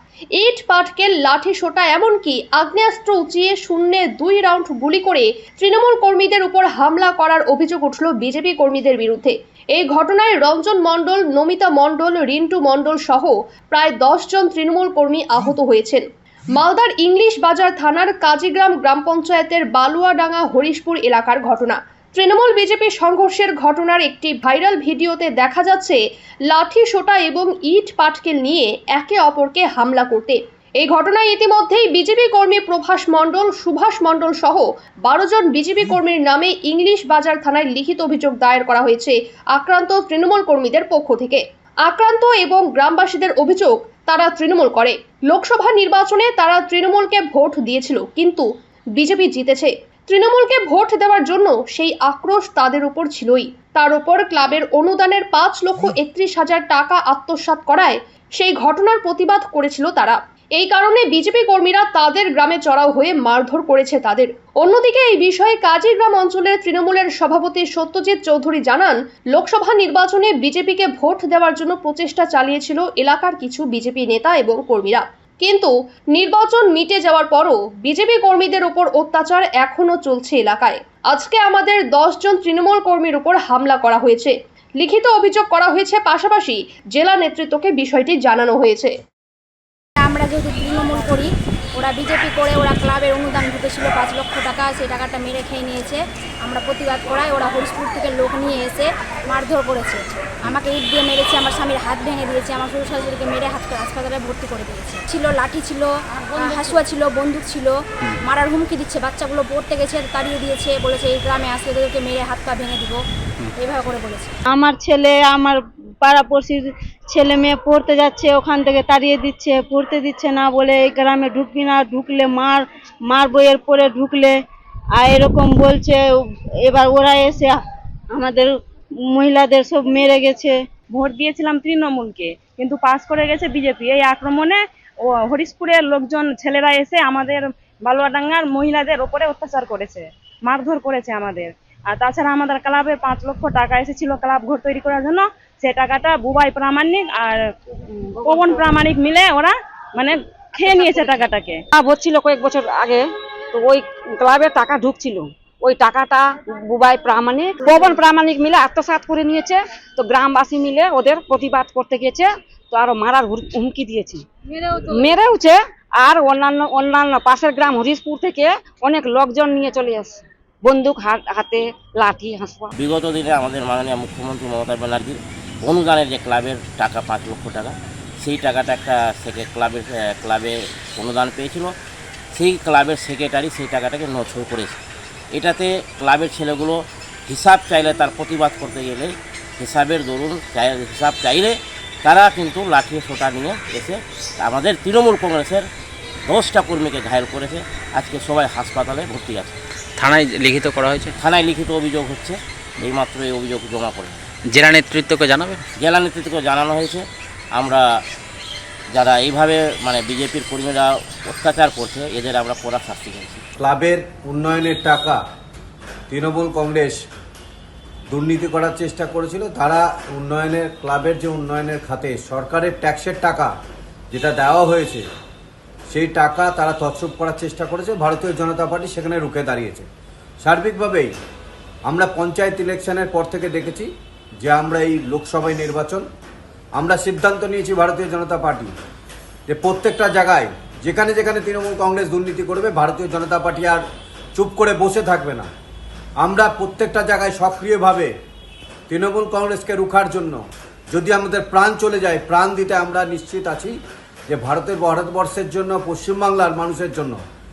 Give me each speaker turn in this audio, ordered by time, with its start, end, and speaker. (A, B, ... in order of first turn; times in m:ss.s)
0:00.4-0:26.0 A
0:26.5-0:48.4 A
0:49.0-1:28.9 A
1:30.0-1:53.0 B
1:53.6-1:54.3 B
1:54.5-1:55.5 C
1:55.1-1:55.5 D
1:56.1-1:56.6 C
1:57.1-2:04.3 C
2:05.0-2:06.0 C
2:06.7-2:07.5 C
2:08.2-2:08.5 C
2:09.1-2:10.6 C
2:10.9-2:27.5 E
2:28.2-2:31.6 E
2:28.2-2:28.8 D
2:30.6-2:31.2 D
2:31.7-2:52.7 D
2:52.8-3:01.7 F
3:02.3-3:04.8 F
3:05.3-3:15.6 F
3:16.3-3:19.6 F
3:20.0-3:21.1 G
3:21.2-3:24.2 F
3:24.5-3:25.6 G
3:25.8-3:27.8 F
3:28.9-3:33.4 F
3:33.6-3:35.2 H
3:36.1-3:37.0 H
3:38.1-3:43.5 H
3:44.1-3:45.0 H
3:45.9-3:49.9 H
3:50.4-3:51.1 H
3:51.9-3:53.9 H
3:54.4-3:56.0 H
3:56.8-3:58.7 H
3:59.5-4:03.8 H
4:04.3-4:05.5 H
4:06.2-4:08.1 H
4:08.9-4:13.8 H
4:14.3-4:17.2 H